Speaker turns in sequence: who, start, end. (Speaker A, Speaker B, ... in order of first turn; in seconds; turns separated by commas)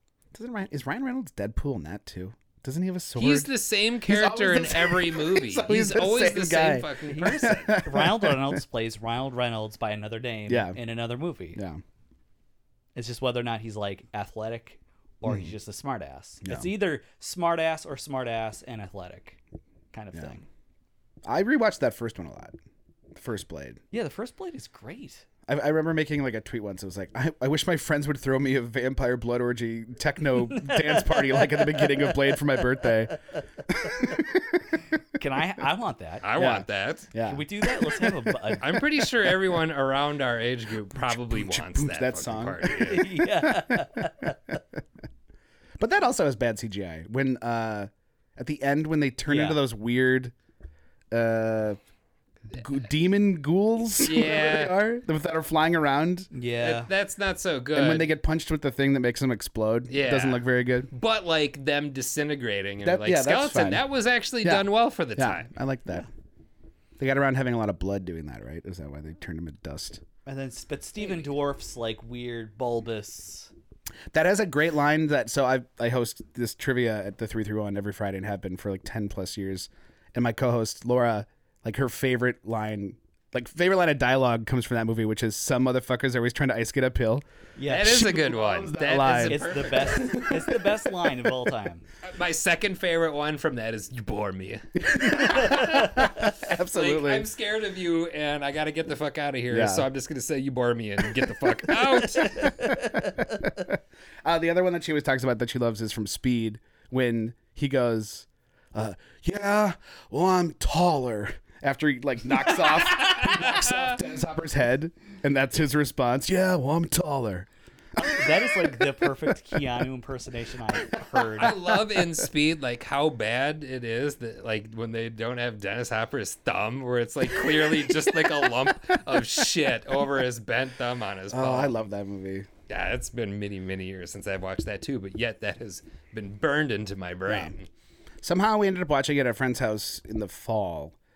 Speaker A: 0.3-3.5, Speaker B: 3.2-7.8, Speaker A: 4.0-8.6, Speaker C: 7.1-11.6, Speaker A: 10.5-10.8, Speaker A: 11.6-11.8, Speaker C: 12.9-19.4, Speaker A: 15.2-15.5, Speaker A: 16.4-16.7, Speaker C: 19.9-20.4, Speaker A: 20.1-20.4, Speaker A: 21.2-22.6, Speaker A: 23.1-23.8, Speaker C: 23.9-25.2, Speaker A: 25.5-34.6, Speaker C: 30.5-32.3, Speaker C: 35.1-36.3, Speaker B: 36.2-37.1, Speaker A: 36.4-38.8, Speaker C: 37.2-38.8, Speaker B: 38.6-43.1, Speaker A: 41.0-44.8, Speaker C: 42.8-44.4, Speaker A: 45.8-50.3, Speaker C: 49.3-49.6, Speaker A: 51.1-51.8, Speaker A: 52.5-56.3, Speaker B: 54.0-54.8, Speaker C: 56.3-56.9, Speaker B: 56.6-58.1, Speaker A: 57.7-60.9, Speaker B: 59.9-65.5, Speaker A: 62.8-63.8, Speaker A: 64.4-66.1, Speaker A: 67.0-70.0, Speaker C: 70.3-73.5, Speaker A: 74.1-87.2, Speaker C: 87.6-88.0, Speaker B: 87.7-90.2, Speaker A: 87.8-91.3, Speaker C: 89.3-91.9, Speaker B: 92.0-102.5, Speaker A: 94.8-97.3, Speaker A: 99.5-99.9, Speaker C: 102.2-103.5, Speaker A: 102.4-117.5, Speaker B: 112.9-114.0, Speaker C: 118.0-121.6, Speaker B: 121.4-131.8, Speaker A: 122.0-122.3, Speaker A: 131.3-132.5, Speaker B: 132.7-137.7, Speaker A: 137.3-137.5, Speaker A: 138.2-141.0